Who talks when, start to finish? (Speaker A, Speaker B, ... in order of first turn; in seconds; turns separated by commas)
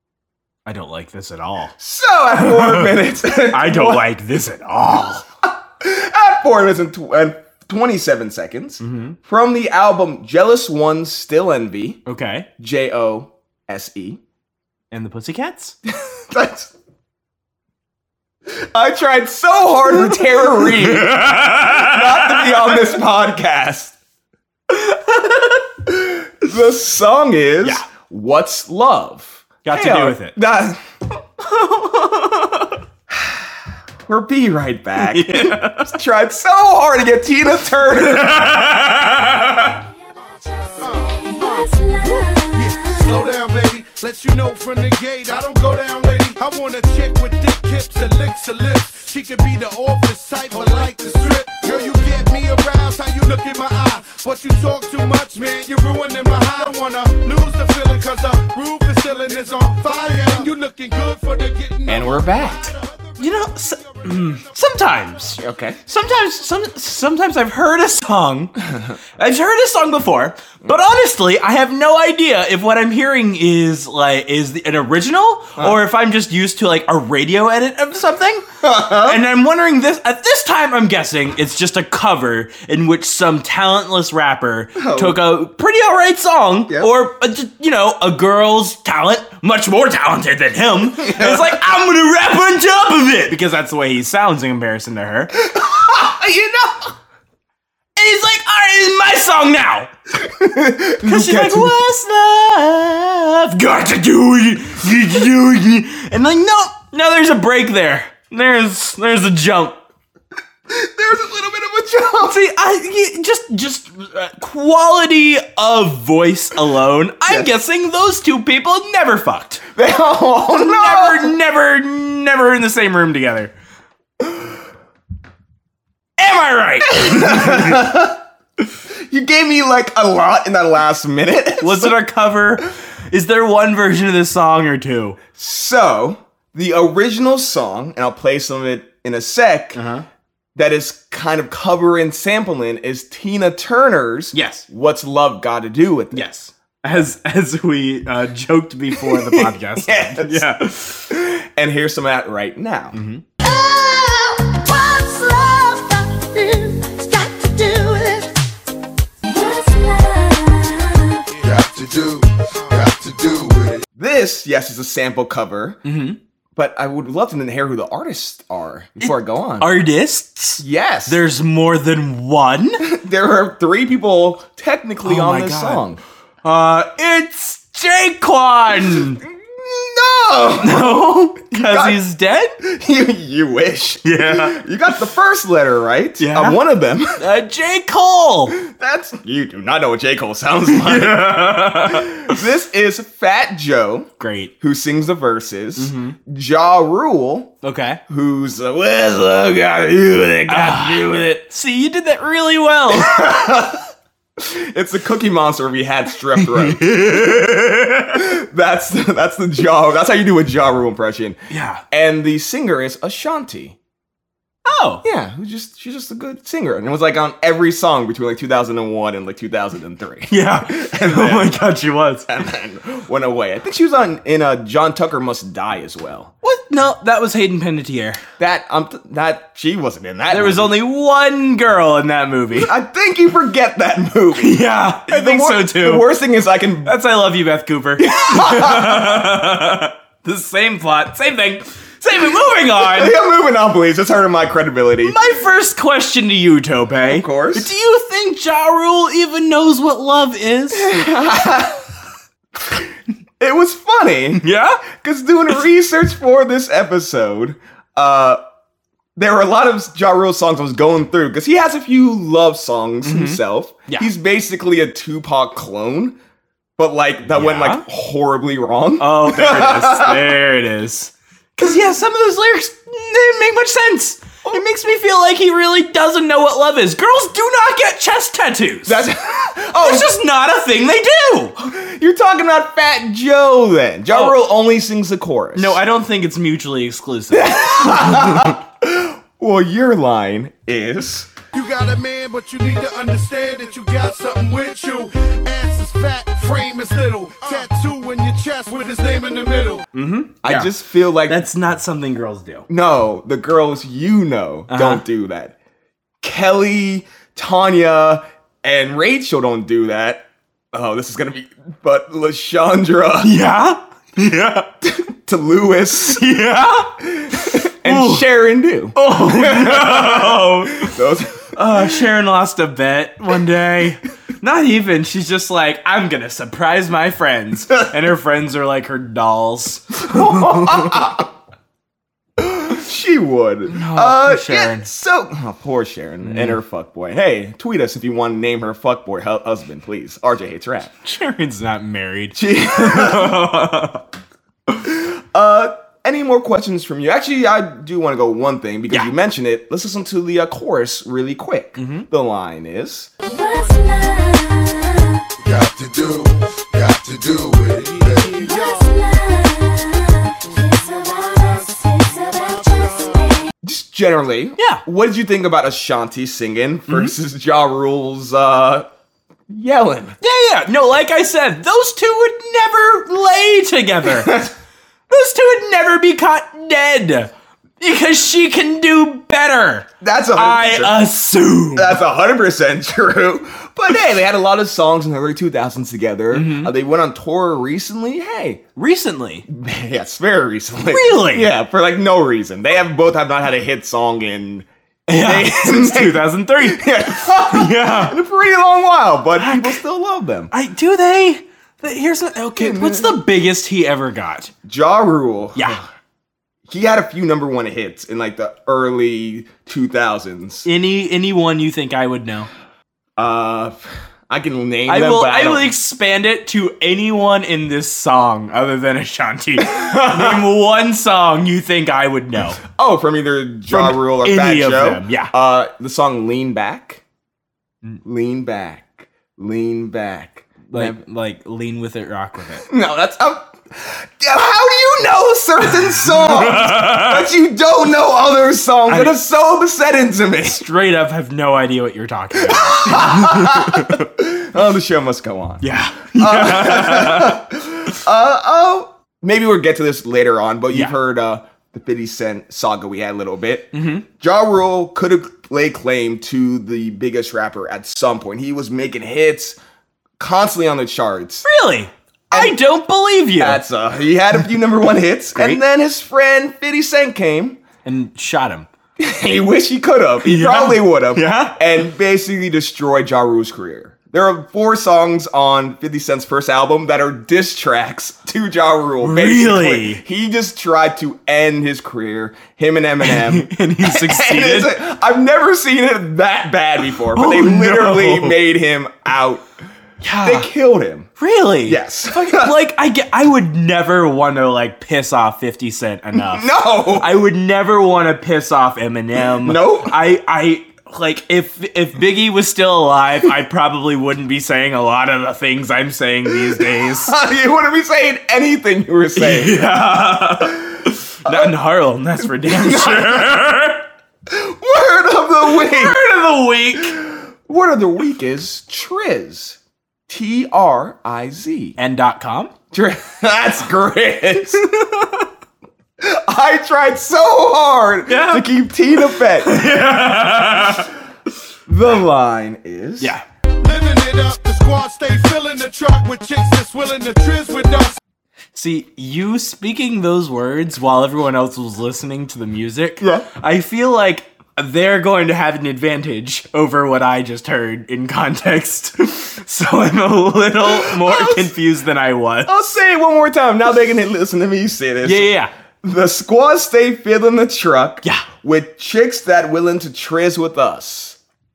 Speaker A: 0.7-1.7, Speaker B: 1.8-4.0, Speaker A: 2.4-3.0, Speaker A: 3.5-5.2, Speaker B: 5.8-12.0, Speaker A: 8.8-9.2, Speaker A: 12.1-12.5, Speaker B: 12.6-14.2, Speaker A: 14.9-15.8, Speaker B: 15.9-16.7, Speaker B: 18.5-23.9, Speaker A: 20.5-22.7, Speaker B: 25.9-30.8, Speaker A: 29.6-30.4, Speaker A: 31.4-32.8, Speaker B: 33.1-33.5, Speaker B: 34.1-38.6, Speaker A: 35.0-36.0, Speaker A: 38.0-39.8, Speaker C: 40.6-43.3, Speaker D: 40.8-64.5, Speaker B: 61.9-62.7, Speaker A: 63.2-68.6, Speaker B: 65.4-65.8, Speaker A: 69.2-95.4, Speaker B: 78.6-79.2, Speaker B: 84.8-85.2, Speaker B: 91.0-91.5, Speaker B: 95.4-96.9, Speaker A: 98.0-99.9, Speaker B: 100.2-101.8, Speaker A: 101.0-109.8, Speaker B: 110.7-112.4, Speaker A: 112.2-119.6, Speaker B: 119.8-121.3, Speaker A: 120.6-123.5, Speaker A: 126.2-127.8, Speaker B: 126.9-128.2, Speaker B: 128.9-132.0, Speaker A: 131.6-135.2, Speaker B: 135.3-139.8, Speaker A: 139.7-140.1, Speaker B: 140.6-146.2, Speaker A: 144.3-144.7, Speaker A: 146.1-151.1, Speaker B: 149.0-153.0, Speaker A: 152.9-153.2, Speaker C: 153.4-158.3, Speaker C: 159.2-161.3, Speaker D: 161.4-162.9, Speaker B: 164.0-165.8, Speaker A: 165.8-166.2, Speaker B: 166.6-169.7, Speaker A: 169.0-172.8, Speaker B: 170.6-171.2, Speaker B: 172.8-176.0, Speaker A: 175.0-175.8, Speaker A: 176.4-179.2, Speaker B: 178.9-182.0, Speaker A: 180.6-182.6, Speaker B: 182.6-187.2, Speaker A: 184.0-184.6, Speaker A: 186.2-186.6, Speaker A: 187.2-188.6, Speaker B: 188.5-194.1, Speaker A: 190.7-192.4, Speaker A: 194.2-194.5, Speaker B: 194.6-197.5, Speaker A: 195.8-196.2, Speaker A: 197.6-198.0, Speaker B: 198.1-201.4, Speaker A: 200.5-203.3, Speaker B: 202.9-203.9, Speaker B: 204.4-207.4, Speaker A: 206.4-208.2, Speaker B: 208.1-211.4, Speaker A: 211.5-211.8, Speaker B: 211.9-213.8, Speaker A: 214.7-215.0, Speaker B: 215.0-221.6, Speaker A: 220.3-222.3, Speaker B: 222.3-226.3, Speaker A: 226.4-228.2, Speaker B: 228.4-230.8, Speaker A: 230.3-232.7, Speaker B: 232.6-236.9, Speaker A: 234.4-236.1, Speaker A: 236.8-243.2, Speaker B: 238.0-239.3, Speaker B: 242.8-245.2, Speaker A: 245.0-251.1, Speaker B: 247.1-247.7, Speaker B: 250.7-251.8, Speaker B: 253.4-258.4, Speaker A: 254.4-254.8, Speaker B: 259.2-266.2, Speaker A: 263.0-264.1, Speaker B: 266.8-270.3, Speaker A: 267.3-267.8, Speaker A: 269.0-279.1, Speaker B: 278.9-280.1, Speaker A: 279.7-281.7, Speaker B: 281.6-285.8, Speaker A: 284.1-284.4, Speaker A: 285.6-288.6, Speaker B: 287.3-291.3, Speaker D: 291.5-299.9, Speaker A: 299.9-300.7, Speaker B: 300.4-301.4, Speaker A: 301.3-302.7, Speaker B: 302.7-305.6, Speaker A: 304.7-305.0, Speaker B: 306.2-313.4, Speaker A: 313.2-314.7, Speaker B: 314.8-316.2, Speaker A: 316.1-318.3, Speaker B: 317.0-322.0, Speaker A: 318.9-320.9, Speaker A: 321.5-331.1, Speaker B: 330.0-331.3, Speaker B: 332.4-340.9, Speaker A: 333.7-334.9, Speaker A: 336.2-336.6, Speaker A: 341.0-344.0, Speaker B: 342.4-343.5, Speaker B: 344.8-353.1, Speaker A: 351.8-352.1, Speaker C: 353.2-355.3, Speaker D: 357.3-358.8, Speaker C: 357.9-363.5, Speaker B: 363.6-368.9, Speaker A: 366.9-367.1, Speaker B: 369.5-370.2, Speaker A: 370.2-374.4, Speaker B: 374.1-374.5, Speaker A: 375.1-382.0, Speaker B: 380.0-381.1, Speaker B: 381.7-388.6, Speaker A: 386.3-386.7, Speaker A: 388.8-389.5, Speaker B: 389.5-400.5, Speaker A: 390.9-391.5, Speaker A: 395.1-398.2, Speaker A: 399.4-399.8, Speaker A: 400.5-404.5, Speaker B: 402.6-403.2, Speaker B: 404.6-405.9, Speaker A: 405.6-405.8, Speaker B: 406.7-410.7, Speaker A: 410.6-412.5, Speaker B: 413.2-415.7, Speaker A: 414.9-422.6, Speaker B: 419.6-420.4, Speaker B: 422.6-427.0, Speaker A: 423.7-425.3, Speaker B: 428.0-431.0, Speaker A: 430.7-432.7, Speaker B: 432.7-440.6, Speaker A: 435.8-437.2, Speaker A: 438.9-439.2, Speaker A: 440.4-444.1, Speaker B: 442.4-459.6, Speaker A: 445.6-447.5, Speaker A: 453.7-454.1, Speaker B: 460.2-461.5, Speaker A: 461.4-463.6, Speaker B: 462.3-462.6, Speaker B: 463.4-467.6, Speaker A: 465.4-465.6, Speaker A: 467.9-468.7, Speaker B: 469.0-489.5, Speaker A: 470.2-471.6, Speaker A: 479.0-480.0, Speaker A: 483.0-484.8, Speaker A: 487.1-488.4, Speaker A: 490.0-490.5, Speaker B: 490.2-491.1, Speaker A: 491.2-496.4, Speaker B: 491.6-492.6, Speaker B: 496.1-497.1, Speaker A: 497.0-507.1, Speaker B: 499.4-500.0, Speaker B: 506.3-509.7, Speaker A: 509.2-513.9, Speaker B: 510.5-510.7, Speaker B: 511.2-511.5, Speaker B: 512.2-513.4, Speaker B: 514.3-516.0, Speaker A: 515.5-517.0, Speaker B: 516.9-521.8, Speaker A: 521.8-522.5, Speaker B: 522.7-524.6, Speaker A: 524.6-525.3, Speaker B: 526.0-529.7, Speaker A: 528.1-528.5, Speaker A: 529.2-530.9, Speaker B: 531.7-533.1, Speaker A: 533.0-533.2, Speaker D: 533.6-538.0, Speaker A: 538.5-552.6, Speaker B: 543.0-543.3, Speaker B: 550.6-551.5, Speaker B: 552.5-561.2, Speaker A: 555.0-555.5